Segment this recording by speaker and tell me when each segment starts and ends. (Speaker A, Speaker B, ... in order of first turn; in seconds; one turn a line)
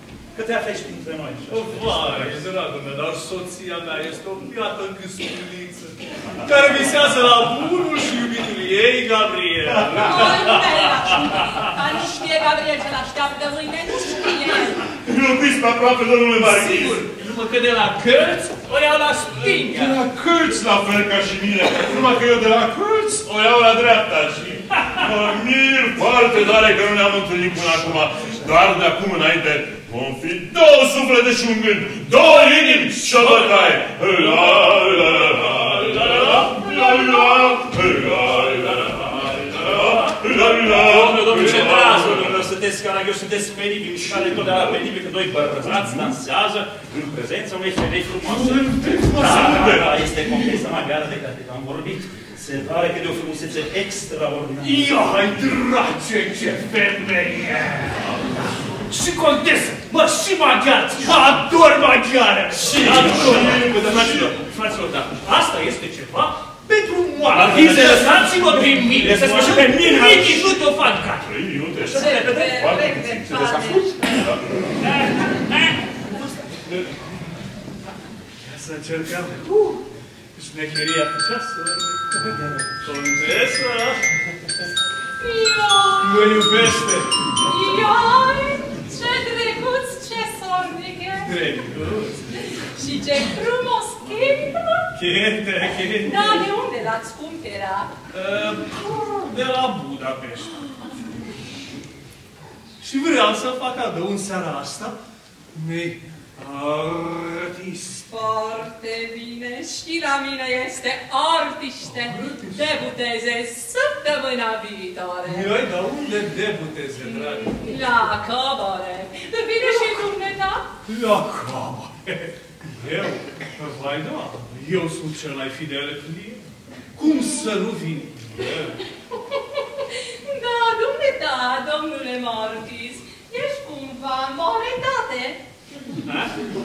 Speaker A: 0.3-2.4
Speaker B: 1.5-11.5
Speaker C: 9.9-14.8
Speaker D: 15.0-17.0
Speaker B: 16.4-20.0
Speaker D: 19.5-42.5
Speaker B: 32.1-37.1
Speaker A: 39.5-54.9
Speaker D: 44.0-44.9
Speaker D: 45.6-46.1
Speaker D: 48.2-50.5
Speaker B: 54.6-58.2
Speaker B: 58.8-64.3
Speaker D: 62.6-64.4
Speaker A: 62.7-65.1
Speaker B: 65.2-71.3
Speaker A: 67.3-70.6
Speaker D: 71.2-73.1
Speaker A: 71.8-74.3
Speaker C: 71.9-74.3
Speaker A: 75.0-75.7
Speaker B: 78.4-79.8
Speaker B: 80.3-84.0
Speaker C: 85.2-86.4
Speaker B: 86.0-87.1
Speaker C: 87.4-91.3
Speaker B: 91.2-92.5
Speaker C: 92.6-94.9
Speaker B: 94.9-96.5
Speaker C: 96.0-97.9
Speaker B: 98.1-100.7
Speaker B: 102.8-105.0
Speaker B: 105.5-108.0
Speaker C: 108.1-115.6
Speaker B: 111.8-112.7
Speaker B: 115.2-117.6
Speaker C: 117.0-120.7
Speaker B: 120.8-126.4
Speaker B: 127.0-128.8
Speaker C: 130.2-135.4